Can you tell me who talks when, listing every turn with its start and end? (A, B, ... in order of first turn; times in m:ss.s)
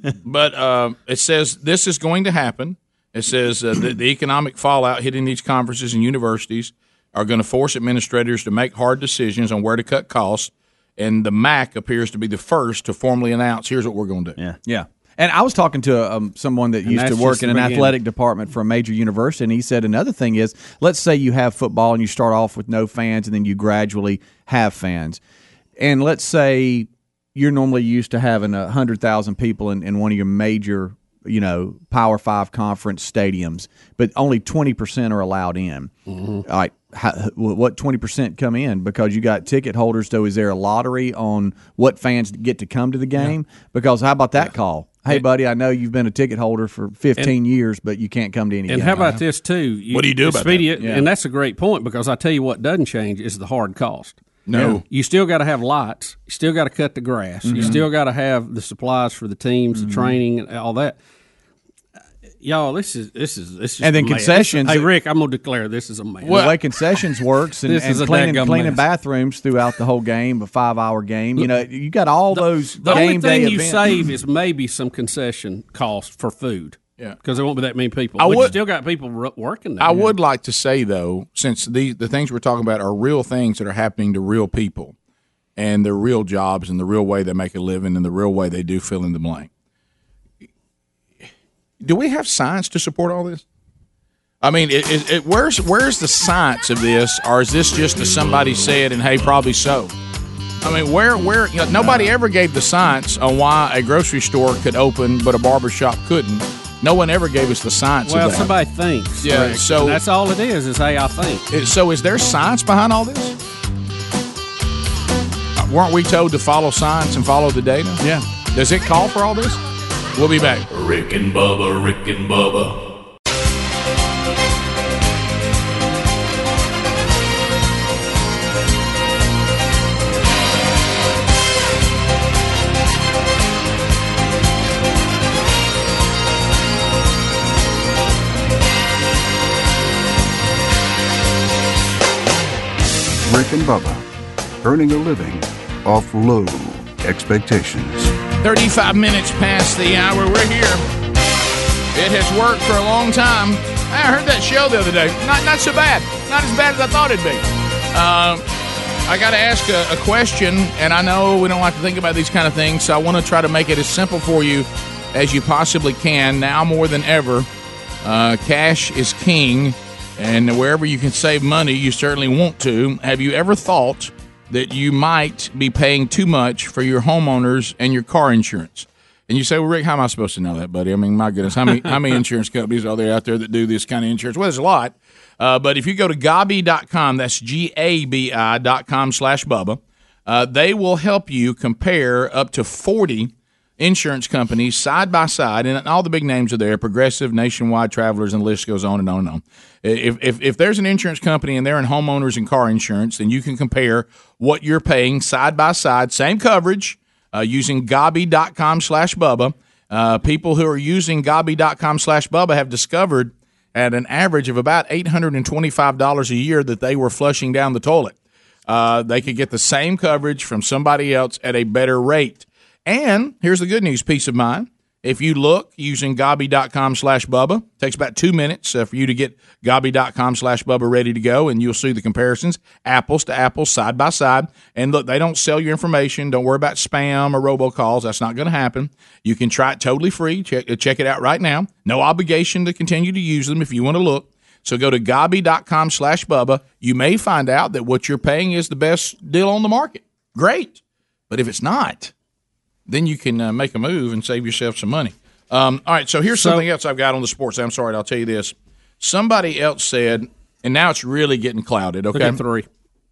0:00.2-0:14.4 A
0:14.7-0:25.2 B
0:16.9-0:18.0 C
0:25.8-0:35.9 B
0:36.1-0:36.4 C
0:36.4-0:49.2 B
0:48.7-0:54.2 C
0:49.9-0:50.7 A
0:50.8-0:51.1 B
0:54.5-0:54.8 A
0:54.5-0:54.8 B
0:54.9-1:01.0 C
0:57.4-0:57.8 B
0:59.7-1:00.2 B
1:02.4-1:06.5 C
1:03.8-1:04.9 B
1:06.2-1:14.1 B
1:06.3-1:06.5 A
1:07.7-1:08.8 C
1:12.3-1:20.1 C
1:18.2-1:18.6 A
1:19.8-1:25.0 A
1:25.6-1:29.5 A
1:31.8-1:33.4 A
1:34.4-1:39.9 A
1:40.6-1:48.5 A
1:48.0-1:51.5 C
1:49.2-1:50.0 A
1:51.5-1:53.4 A
1:55.6-1:58.0 A
1:58.0-1:58.2 B
1:58.5-1:59.6 A
2:00.2-2:00.6 A
2:00.7-2:02.8 D
2:23.2-2:24.0 E
2:24.6-2:28.1 E
2:28.4-2:30.8 A
2:31.9-2:38.4 A
2:39.1-2:47.5 A
2:48.0-3:38.2 A
3:38.7-4:12.1 A
4:12.9-4:22.4 A
4:16.3-4:16.6 C
4:22.1-4:22.7 C